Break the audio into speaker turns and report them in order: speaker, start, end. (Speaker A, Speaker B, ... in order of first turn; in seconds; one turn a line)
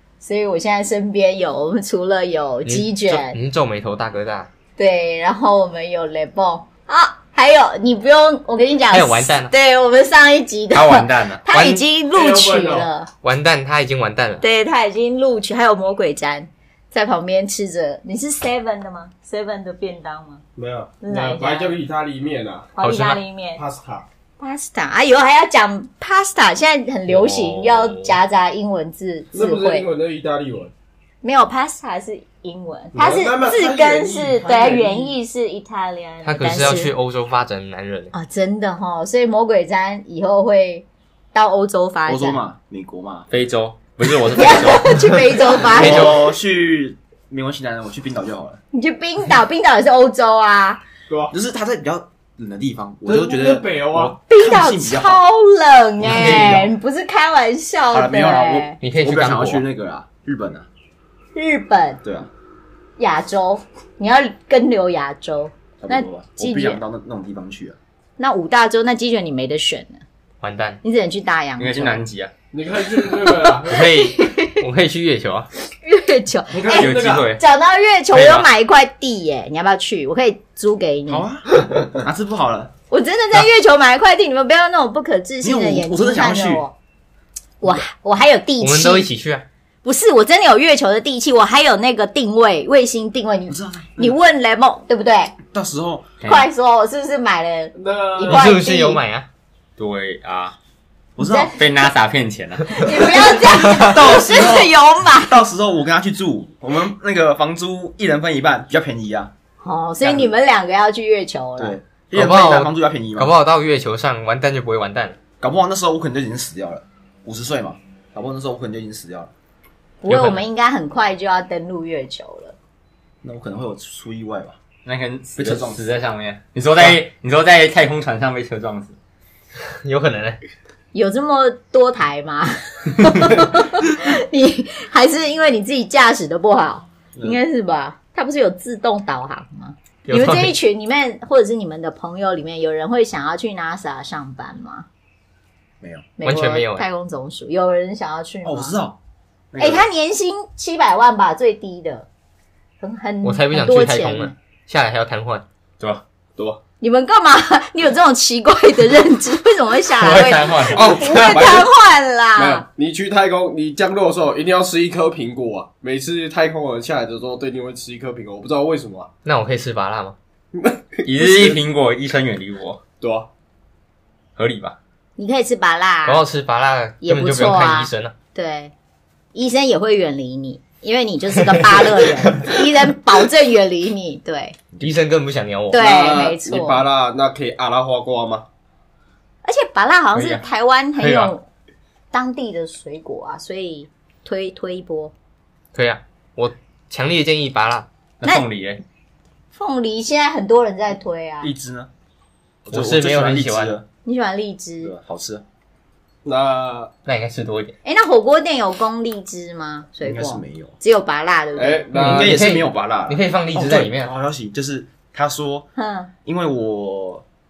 Speaker A: 0.2-3.4
Speaker B: 2.7-4.5
Speaker A: 4.8-13.1
Speaker B: 8.9-9.5
Speaker C: 10.7-11.4
Speaker B: 11.5-11.8
Speaker D: 12.1-12.9
Speaker B: 13.2-14.4
Speaker A: 14.4-20.4
Speaker D: 20.6-22.7
Speaker A: 21.0-21.8
Speaker A: 22.8-23.6
Speaker B: 22.8-23.2
Speaker D: 23.6-24.1
Speaker A: 24.4-29.9
Speaker B: 27.1-28.1
Speaker D: 29.3-30.7
Speaker A: 31.2-36.9
Speaker D: 32.9-35.1
Speaker B: 36.2-38.1
Speaker A: 38.1-42.4
Speaker E: 42.1-43.3
Speaker C: 43.3-46.3
Speaker A: 44.2-46.1
Speaker E: 45.6-48.6
Speaker A: 48.7-50.8
Speaker E: 51.3-55.2
Speaker D: 53.0-54.2
Speaker A: 54.2-58.8
Speaker E: 56.0-56.7
Speaker E: 57.9-60.7
Speaker B: 58.8-59.6
Speaker A: 61.3-62.0
Speaker E: 62.0-62.3
Speaker A: 63.0-66.8
Speaker E: 65.8-67.8
Speaker A: 68.2-70.0
Speaker B: 70.4-70.8
Speaker A: 70.8-72.0
Speaker C: 71.6-72.3
Speaker D: 72.5-73.9
Speaker A: 73.7-74.6
Speaker B: 73.7-75.5
Speaker A: 75.8-81.2
Speaker D: 76.5-77.2
Speaker C: 76.6-77.4
Speaker B: 78.1-78.5
Speaker E: 81.1-82.7
Speaker A: 82.9-86.7
Speaker E: 85.4-86.7
Speaker A: 87.6-89.1
Speaker B: 88.6-89.4
Speaker A: 89.8-95.4
Speaker E: 93.5-94.1
Speaker E: 95.5-96.2
Speaker C: 96.2-96.5
Speaker A: 96.2-99.0
Speaker D: 97.8-98.4
Speaker B: 98.3-99.3
Speaker C: 99.8-100.5
Speaker E: 101.2-101.6
Speaker A: 101.2-101.5
Speaker C: 101.5-103.2
Speaker A: 102.7-105.4
Speaker E: 103.4-109.3
Speaker A: 109.6-111.8
Speaker E: 110.0-110.3
Speaker E: 111.6-113.3
Speaker B: 112.1-115.2
Speaker E: 115.4-119.3
Speaker A: 120.0-122.6
Speaker B: 120.1-120.4
Speaker E: 123.2-124.6
Speaker C: 124.8-129.0
Speaker E: 125.3-125.9
Speaker B: 129.8-130.4
Speaker A: 130.9-144.8
Speaker B: 140.1-140.6
Speaker E: 145.8-146.1
Speaker A: 146.2-148.8
Speaker B: 146.2-146.8
Speaker E: 148.4-149.0
Speaker E: 149.5-149.8
Speaker A: 149.6-152.1
Speaker A: 152.8-154.3
Speaker B: 153.2-155.4
Speaker A: 156.8-162.7
Speaker C: 159.9-161.2
Speaker D: 160.8-161.7
Speaker D: 162.3-169.1
Speaker B: 169.2-170.2
Speaker D: 170.5-171.6
Speaker C: 171.0-172.8
Speaker D: 173.0-173.3
Speaker C: 174.3-174.8
Speaker A: 175.2-176.2
Speaker B: 176.1-178.1
Speaker A: 177.0-178.7
Speaker A: 179.3-184.6
Speaker B: 184.8-185.9
Speaker A: 185.7-186.8
Speaker D: 185.7-188.5
Speaker A: 189.4-191.4
Speaker B: 191.0-191.3
Speaker A: 192.1-195.1
Speaker B: 195.7-197.9
Speaker C: 198.2-198.8
Speaker A: 199.5-201.5
Speaker E: 201.4-201.9
Speaker E: 202.7-203.8
Speaker B: 202.7-203.8
Speaker A: 204.0-204.9
Speaker E: 204.8-205.4
Speaker D: 206.2-206.9
Speaker B: 207.1-207.8
Speaker A: 207.8-211.9
Speaker E: 210.0-210.7
Speaker D: 211.6-212.3
Speaker B: 211.9-214.1
Speaker E: 212.0-215.7
Speaker A: 215.8-216.1
Speaker E: 216.2-217.2